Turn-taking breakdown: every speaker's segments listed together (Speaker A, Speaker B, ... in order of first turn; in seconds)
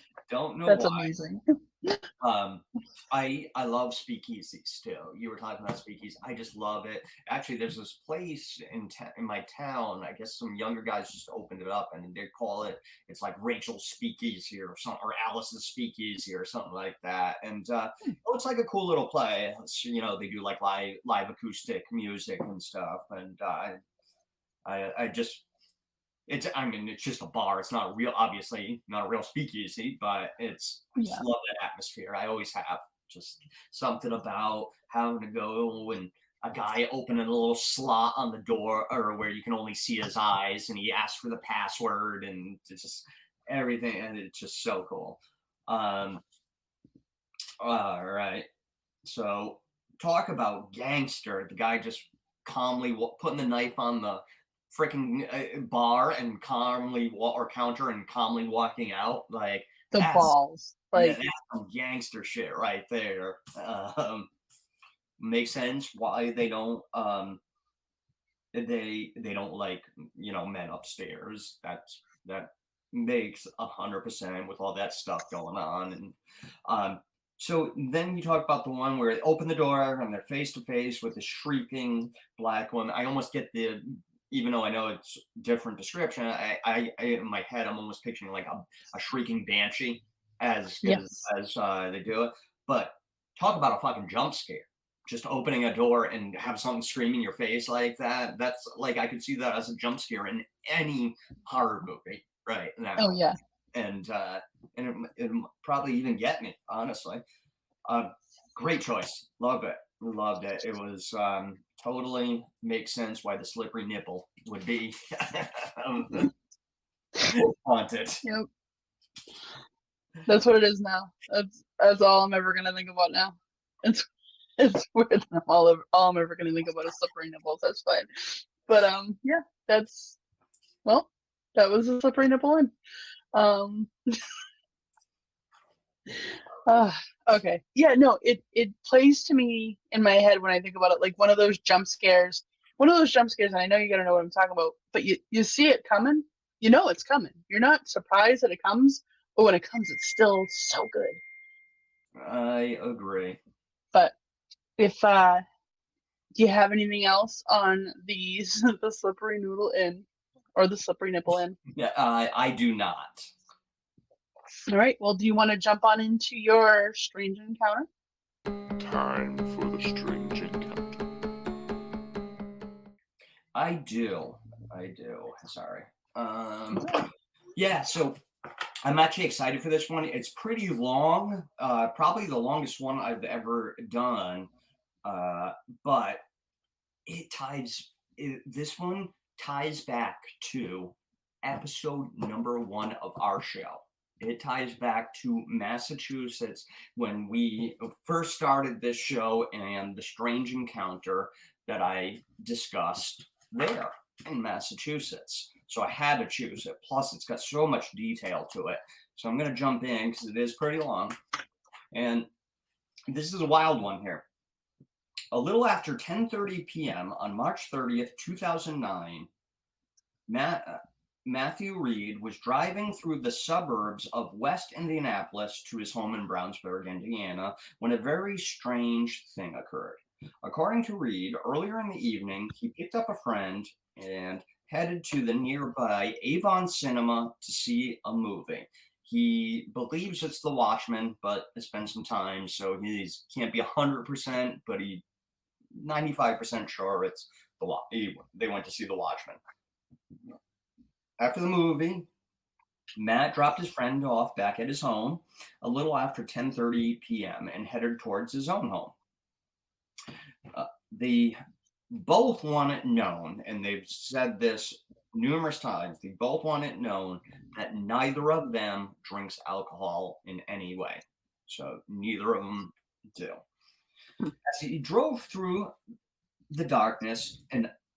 Speaker A: 0.3-1.1, 2.2-23.8, 24.6-25.4, 26.3-46.2, 47.6-48.5, 49.0-60.3, 60.9-64.3, 65.2-67.4, 68.5-103.2, 103.7-107.2, 107.8-116.3, 117.2-118.2, 152.2-153.4, 161.7-163.3, 173.5-177.0, 177.6-178.2, 178.8-184.5, 185.0-186.2, 187.1-211.2, 211.9-212.3, 213.1-214.2, 215.3-219.3, 220.3-245.0, 245.7-249.4, 251.2-252.1, 253.0-258.9, 260.5-261.4, 261.9-273.4, 274.4-275.7, 276.5-277.7
Speaker B: 0.7-2.0, 31.0-31.2, 59.9-61.2, 103.0-103.4, 120.2-124.1, 124.6-130.2, 130.8-132.7, 133.3-133.9, 136.7-151.2, 154.8-155.4, 156.3-161.6, 164.7-167.9
Speaker C: 168.8-171.0